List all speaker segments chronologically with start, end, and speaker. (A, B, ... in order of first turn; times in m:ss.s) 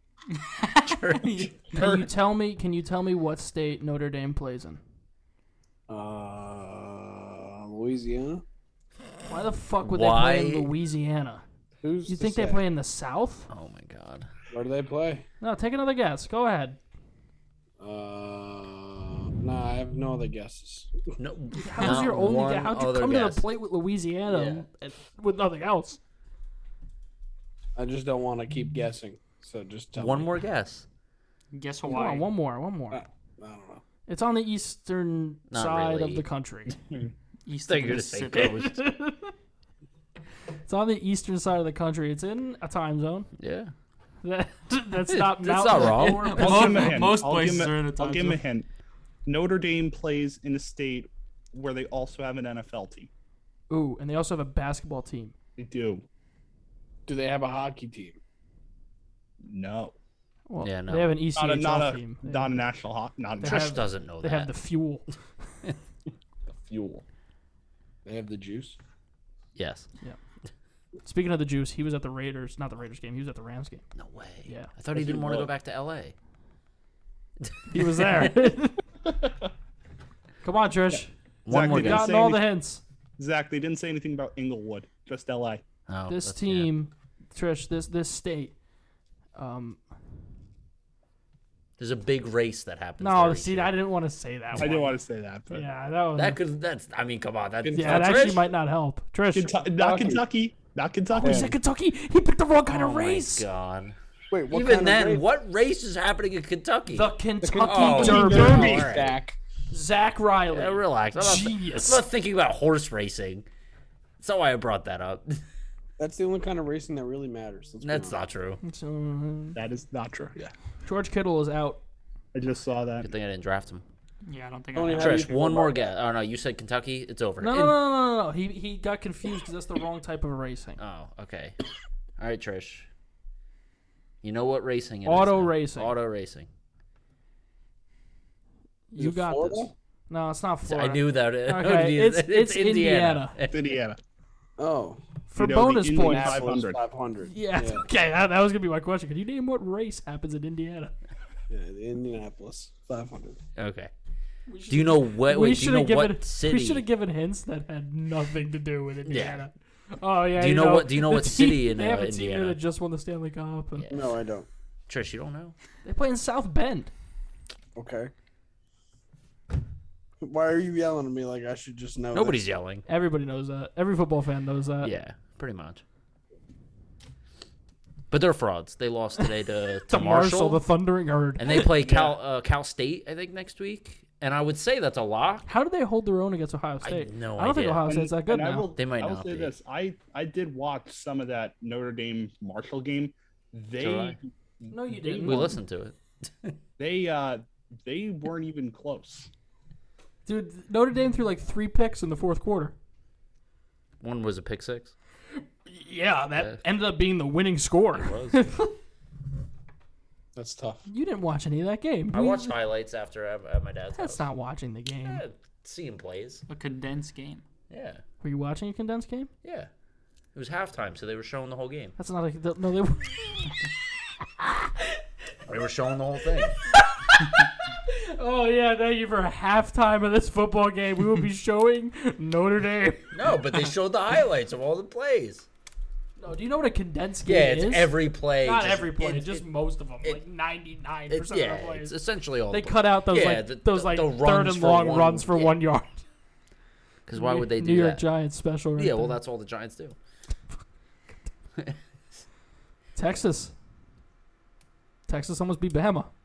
0:00.3-0:01.9 A
0:00.8-0:01.5 B
0:01.7-0:04.8 C
0:01.8-0:02.1 D
0:05.9-0:08.4 E
0:09.3-0:11.4 C
0:09.8-0:10.7 B
0:11.8-0:12.6 E
0:12.1-0:13.5 C
0:13.5-0:14.3 B
0:14.5-0:15.3 E
0:15.4-0:16.8 C
0:17.8-0:20.9 E
0:21.2-0:23.4 B
0:21.6-0:26.0 C
0:24.3-0:24.6 B
0:27.8-0:30.4 E
0:30.0-0:30.9 B
0:31.5-0:32.3 A
0:31.9-0:33.0 C
0:32.9-0:33.8 E
0:34.1-0:36.8 C
0:35.5-0:36.2 B
0:37.5-0:38.6 A
0:37.7-0:38.8 B
0:38.4-0:39.3 C
0:40.7-0:43.3 C
0:43.4-0:43.7 B
0:44.2-0:46.8 C
0:45.1-0:47.0 B
0:45.8-0:48.4 A
0:46.4-0:48.7 D
0:49.3-0:53.1 D
0:53.7-0:55.3 C
0:55.6-0:56.0 D
0:57.1-0:58.2 E
0:59.4-1:00.0 D
1:00.5-1:02.6 C
1:00.6-1:01.2 B
1:01.4-1:03.8 D
1:03.4-1:04.5 B
1:03.4-1:05.1 C
1:06.5-1:07.0 D
1:08.0-1:08.8 E
1:09.6-1:09.9 B
1:11.0-1:13.8 C
1:14.0-1:16.2 B
1:15.1-1:15.4 E
1:15.1-1:15.4 D
1:17.4-1:18.5 B
1:17.7-1:18.8 C
1:20.4-1:22.8 C
1:21.4-1:22.1 B
1:21.5-1:22.5 D
1:23.2-1:25.6 D
1:25.9-1:26.7 B
1:26.1-1:28.5 C
1:29.4-1:29.8 C
1:31.8-1:33.8 B
1:33.0-1:35.0 C
1:34.6-1:35.6 D
1:35.5-1:36.4 C
1:36.2-1:38.5 B
1:37.7-1:38.2 E
1:37.7-1:39.6 C
1:39.3-1:41.5 D
1:39.8-1:40.2 E
1:41.1-1:43.5 C
1:41.2-1:41.6 E
1:42.7-1:44.0 B
1:44.3-1:45.3 E
1:44.5-1:49.2 B
1:46.9-1:48.9 C
1:47.4-1:49.4 E
1:47.8-1:49.0 D
1:49.7-1:52.0 C
1:50.5-1:53.5 B
1:54.2-1:55.4 B
1:56.0-1:58.2 E
1:57.8-1:58.6 B
1:58.6-1:59.6 C
1:59.6-2:00.4 D
2:00.8-2:01.8 C
2:02.3-2:03.1 D
2:03.0-2:03.8 B
2:04.3-2:05.3 A
2:04.8-2:05.9 E
2:04.9-2:07.8 B
2:07.4-2:10.8 C
2:10.8-2:11.6 B
2:12.2-2:12.9 B
2:14.2-2:16.5 B
2:15.0-2:16.0 C
2:18.9-2:23.4 C
2:19.0-2:19.7 E
2:20.7-2:23.8 B
2:23.5-2:24.0 D
2:24.6-2:25.0 E
2:25.3-2:26.6 C
2:25.4-2:26.8 D
2:25.9-2:27.8 E
2:27.2-2:30.9 C
2:31.5-2:33.4 E
2:33.6-2:33.9 B
2:34.5-2:43.9 C
2:34.7-2:36.9 B
2:39.0-2:39.4 B
2:40.4-2:42.6 B
2:43.8-2:44.1 B
2:43.9-2:44.5 E
2:44.9-2:45.6 B
2:45.8-2:46.9 C
2:47.8-2:48.1 E
2:50.2-2:52.5 E
2:52.1-2:52.8 B
2:52.9-2:54.9 C
2:54.8-2:55.8 B
2:58.1-3:00.6 B
2:59.9-3:01.7 C
3:01.4-3:05.5 B
3:01.7-3:02.2 D
3:05.5-3:08.7 C
3:06.8-3:07.8 B
3:07.9-3:15.5 D
3:08.8-3:09.5 B
3:13.8-3:14.2 B
3:14.7-3:15.6 C
3:15.1-3:16.6 B
3:16.8-3:19.3 D
3:20.3-3:22.7 C
3:24.0-3:24.9 B
3:25.7-3:28.7 C
3:27.9-3:28.5 B
3:30.4-3:30.9 E
3:30.9-3:32.6 C
3:32.1-3:34.3 B
3:34.0-3:35.2 C
3:35.0-3:36.4 B
3:36.5-3:37.4 A
3:37.7-3:38.0 B
3:38.2-3:39.3 C
3:39.4-3:39.7 B
3:40.3-3:42.0 B
3:42.0-3:43.6 C
3:44.2-3:45.0 C
3:45.5-3:46.6 B
3:46.6-3:53.2 C
3:53.1-3:55.5 B
3:56.2-4:02.0 C
3:57.3-3:59.4 B
4:01.1-4:05.6 B
4:02.5-4:06.0 C
4:07.1-4:08.0 B
4:07.1-4:09.2 C
4:08.8-4:10.0 B
4:13.0-4:13.5 C
4:15.1-4:16.1 C